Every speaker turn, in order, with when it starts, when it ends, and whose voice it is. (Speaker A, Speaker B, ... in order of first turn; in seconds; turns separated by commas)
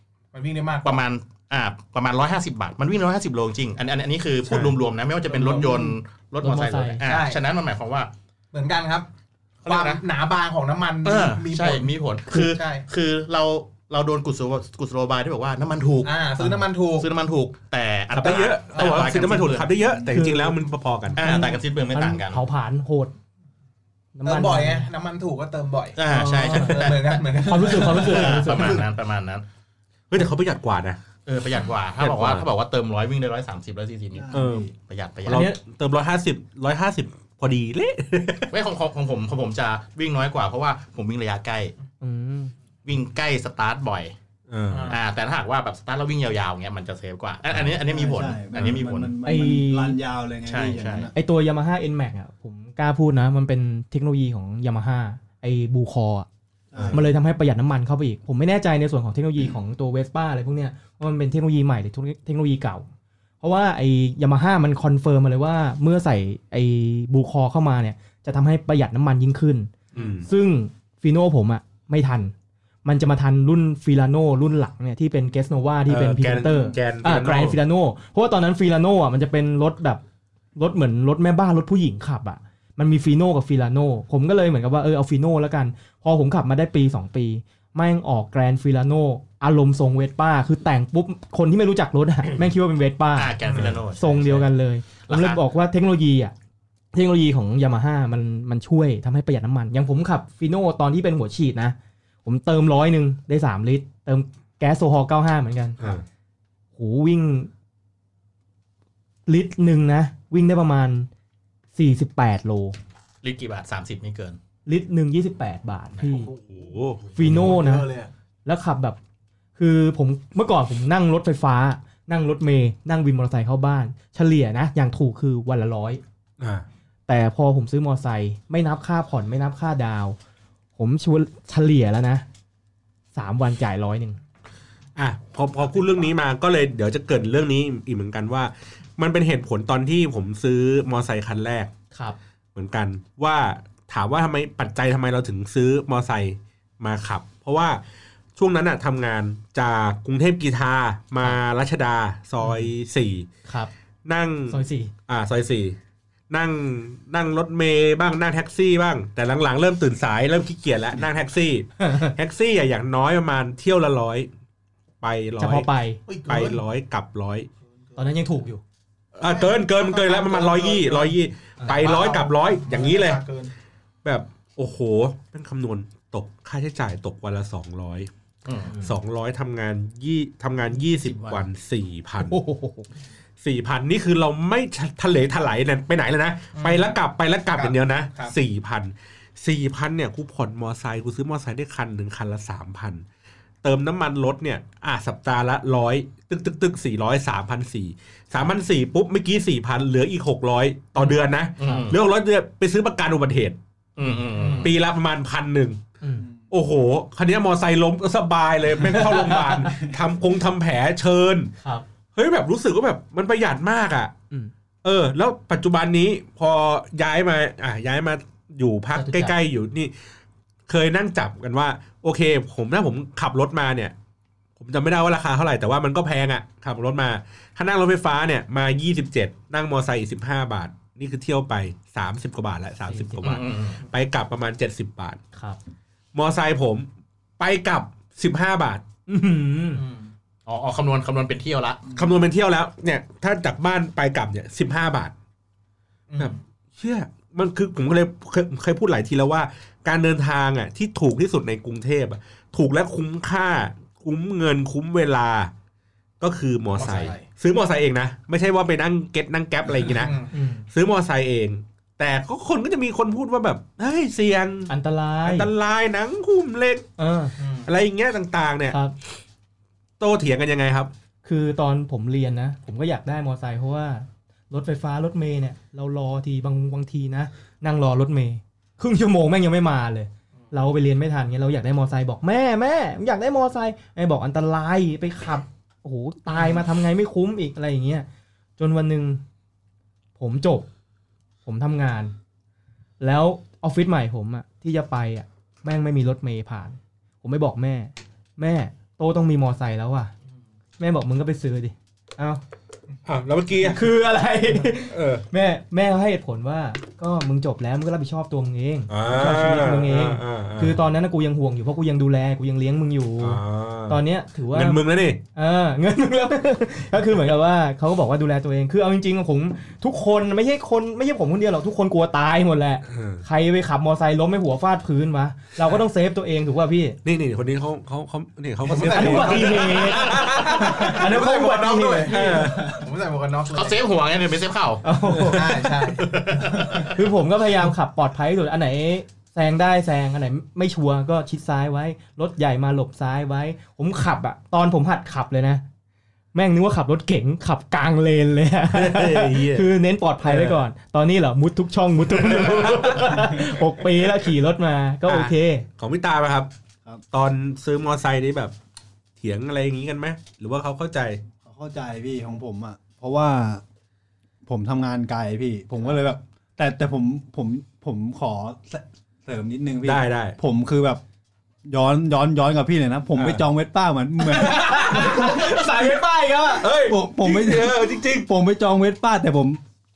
Speaker A: 0.3-1.0, Speaker B: 0.8-8.1, Speaker A: 5.3-5.9, Speaker C: 6.4-7.0, Speaker A: 7.0-7.4, Speaker A: 8.5-9.1, Speaker B: 9.6-10.0, Speaker A: 9.7-12.8, Speaker B: 11.0-16.3, Speaker A: 16.1-17.1, Speaker C: 16.4-16.6, Speaker B: 17.0-19.7, Speaker D: 18.1-21.2, Speaker A: 18.3-19.1, Speaker C: 20.1-20.6, Speaker C: 21.1-23.1, Speaker B: 21.2-22.4, Speaker C: 24.1-24.9, Speaker A: 24.2-28.8, Speaker B: 26.0-29.4, Speaker C: 26.1-28.8, Speaker D: 30.1-31.0, Speaker B: 31.3-35.5, Speaker D: 32.0-32.5, Speaker E: 34.1-34.7, Speaker D: 34.3-34.7, Speaker D: 35.3-38.5, Speaker C: 35.3-35.6, Speaker B: 38.5-41.7, Speaker C: 42.0-42.5, Speaker B: 42.9-44.1, Speaker D: 44.5-45.0, Speaker A: 44.7-45.0, Speaker B: 44.9-49.1, Speaker E: 47.7-51.1, Speaker C: 49.2-50.0, Speaker B: 50.5-51.1, Speaker C: 51.1-56.3, Speaker E: 56.7-57.0, Speaker C: 56.9-62.9, Speaker C: 63.4-69.7, Speaker D: 69.9-70.3, Speaker C: 70.2-72.3, Speaker C: 72.8-80.0, Speaker D: 75.9-77.6, Speaker C: 80.6-96.3, Speaker B: 93.2-94.5, Speaker A: 93.5-93.8, Speaker B: 95.0-95.4, Speaker C: 96.9-105.8, Speaker C: 106.8-107.5, Speaker C: 109.3-111.1, Speaker C: 111.8-112.8, Speaker B: 113.2-114.4, Speaker C: 114.7-116.3, Speaker A: 116.1-118.1, Speaker D: 116.5-117.4, Speaker C: 117.2-117.9, Speaker C: 118.5-119.0, Speaker C: 119.6-126.0, Speaker D: 126.4-126.7, Speaker C: 127.1-130.2, Speaker C: 130.8-132.2, Speaker C: 133.1-134.2, Speaker D: 135.0-141.7, Speaker D: 142.6-147.8, Speaker D: 148.4-153.3, Speaker C: 152.4-152.7, Speaker C: 153.5-153.7, Speaker D: 154.1-155.8, Speaker C: 154.5-154.9, Speaker D: 156.3-164.3, Speaker C: 161.8-162.1, Speaker D: 165.0-165.7, Speaker C: 165.4-166.0, Speaker A: 166.1-166.6, Speaker D: 166.2-167.5, Speaker C: 168.0-168.6, Speaker D: 169.2-173.2, Speaker A: 169.2-173.5, Speaker D: 174.0-178.1, Speaker B: 178.4-178.7, Speaker D: 178.8-182.4, Speaker C: 182.2-182.9, Speaker D: 183.4-193.0, Speaker A: 186.6-187.0, Speaker A: 187.5-188.4, Speaker D: 193.6-203.6, Speaker C: 201.0-201.9, Speaker B: 201.6-202.0, Speaker B: 204.0-204.8, Speaker A: 204.3-204.7, Speaker D: 204.6-205.8, Speaker C: 206.0-206.3, Speaker D: 206.5-211.5, Speaker C: 208.8-209.8, Speaker D: 212.1-214.1, Speaker D: 214.8-219.9, Speaker C: 218.9-219.3, Speaker D: 220.7-223.9, Speaker D: 224.6-235.2, Speaker C: 232.9-233.4, Speaker B: 233.2-233.8, Speaker D: 236.1-236.9, Speaker D: 237.4-238.8, Speaker C: 239.1-239.8, Speaker A: 239.8-240.1, Speaker B: 240.5-241.9, Speaker D: 241.9-245.1, Speaker A: 246.1-246.4, Speaker D: 246.2-255.5, Speaker D: 256.2-260.2, Speaker A: 256.7-257.3, Speaker A: 259.9-260.3, Speaker C: 260.3-260.6, Speaker D: 260.7-264.7, Speaker C: 264.7-265.5, Speaker D: 265.2-266.9, Speaker C: 267.0-267.3, Speaker A: 267.4-267.7, Speaker D: 267.6-268.8, Speaker D: 270.0-270.9, Speaker C: 271.2-288.1, Speaker C: 288.6-289.2, Speaker C: 290.2-290.7, Speaker C: 291.4-292.1, Speaker C: 293.0-300.1, Speaker C: 300.8-302.4, Speaker D: 303.1-303.9, Speaker C: 303.6-314.8, Speaker D: 304.9-305.2, Speaker D: 308.9-310.8, Speaker D: 313.2-315.2, Speaker C: 315.4-327.0, Speaker D: 322.9-323.2, Speaker D: 327.1-331.3, Speaker A: 328.6-333.8, Speaker C: 328.8-332.5, Speaker D: 332.1-332.8, Speaker B: 333.5-334.8, Speaker C: 334.8-335.7, Speaker A: 335.2-336.8, Speaker B: 335.9-336.9, Speaker C: 336.9-345.6, Speaker C: 346.3-355.7, Speaker D: 348.7-349.7, Speaker D: 350.2-350.6, Speaker D: 352.2-353.1, Speaker D: 355.1-356.5, Speaker D: 357.1-358.5, Speaker D: 359.2-361.2, Speaker E: 361.4-363.6, Speaker E: 364.5-371.0, Speaker D: 369.9-370.4, Speaker E: 371.7-375.5, Speaker D: 373.2-373.4, Speaker C: 374.2-376.7, Speaker D: 374.6-375.4, Speaker D: 376.6-378.3, Speaker E: 376.8-379.6